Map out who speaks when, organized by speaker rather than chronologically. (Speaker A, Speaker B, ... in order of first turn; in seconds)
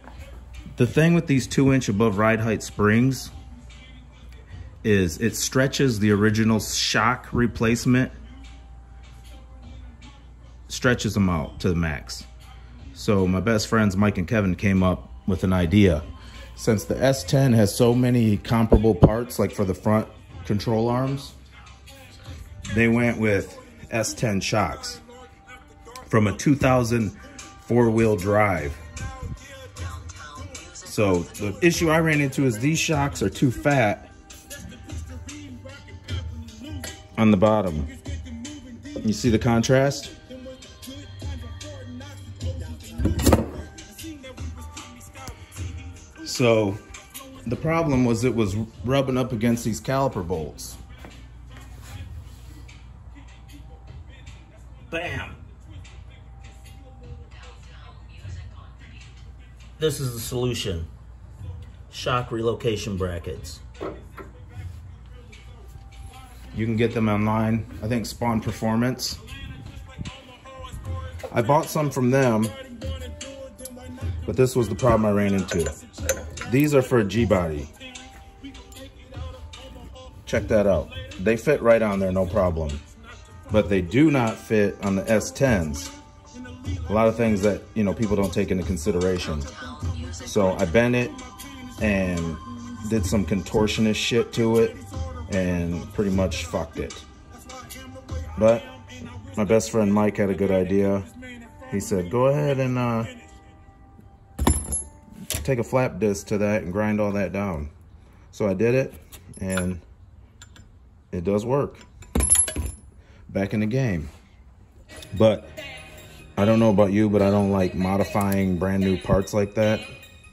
Speaker A: 0.8-3.3, 4.8-8.1, 10.7-12.3, 12.9-16.1, 16.6-21.4, 22.7-25.0, 26.1-28.8, 30.8-34.1, 37.2-37.9, 39.0-40.1, 46.2-46.8, 47.5-50.8, 54.9-55.4, 59.8-60.9, 61.9-63.6, 66.5-69.2, 71.3-72.6, 74.2-75.8, 76.4-77.7, 80.3-82.8, 83.5-86.0, 86.9-91.2, 91.8-97.1, 98.3-98.7, 99.3-101.1, 101.7-103.1, 105.3-107.7, 108.3-109.8, 111.1-111.9, 113.3-114.1, 115.1-115.5, 116.4-119.9